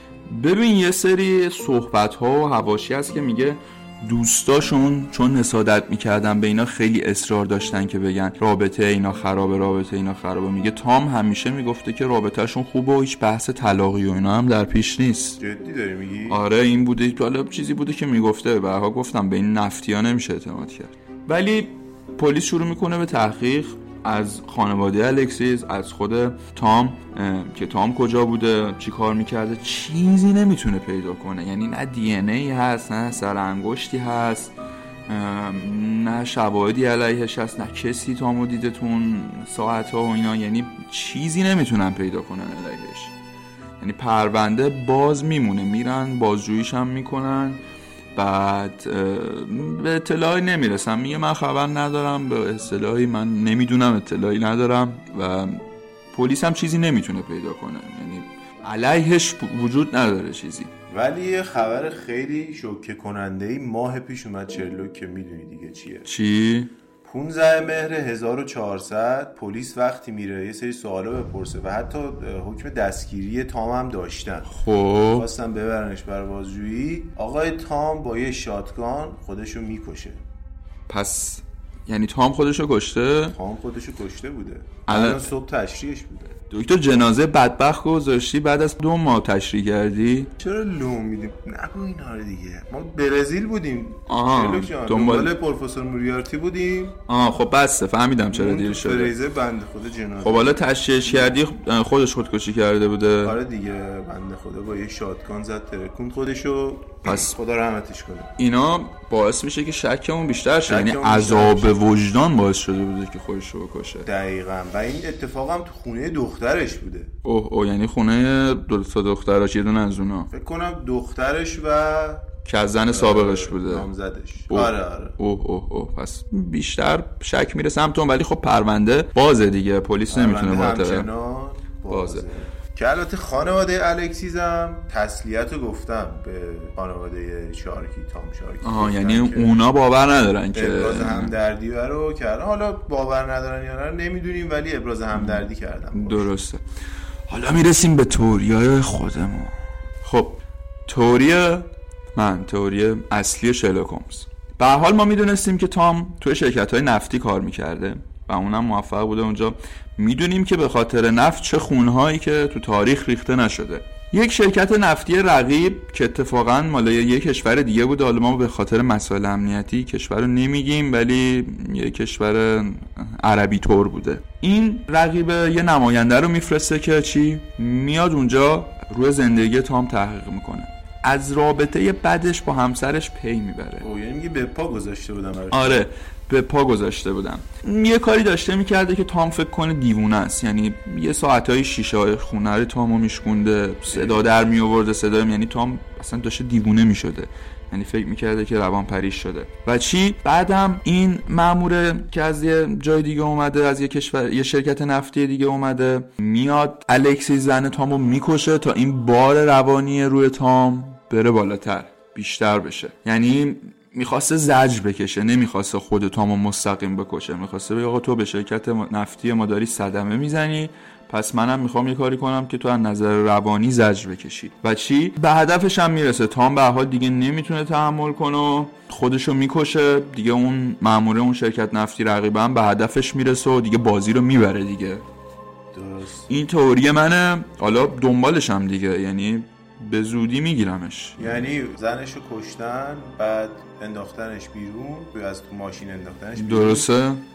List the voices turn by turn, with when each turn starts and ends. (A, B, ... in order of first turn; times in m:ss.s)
0:00.3-0:15.4 A
0:15.4-0:16.4 B
0:16.3-0:34.5 A
0:35.1-0:43.1 A
0:43.8-0:47.6 A
0:48.1-1:00.7 A
1:00.9-1:06.0 B
1:06.0-1:06.7 A
1:07.0-1:14.6 B
1:14.5-1:15.3 A
1:15.1-1:20.2 B
1:20.9-1:23.4 A
1:23.3-1:26.3 B
1:24.9-1:25.3 A
1:26.5-1:30.3 A
1:30.4-1:37.0 B
1:34.1-1:35.3 A
1:37.1-1:39.1 A
1:38.3-1:41.3 B
1:40.2-1:43.4 A
1:43.2-1:48.3 B
1:47.0-1:47.3 A
1:48.4-1:54.1 A
1:50.6-1:51.9 B
1:54.0-1:57.1 B
1:57.2-2:00.3 A
2:00.3-2:02.3 B
2:02.4-2:03.9 A
2:02.9-2:05.2 B
2:04.5-2:11.1 A
2:10.1-2:19.6 B
2:11.9-2:12.2 A
2:18.6-2:21.3 A
2:20.5-2:26.3 B
2:25.1-2:26.6 A
2:27.3-3:03.9 A
3:03.8-3:05.9 B
3:05.5-3:55.0 A
3:13.9-3:14.3 B
3:55.7-3:56.3 B
3:56.3-4:01.4 A
4:01.2-4:06.9 B
4:06.4-4:07.2 A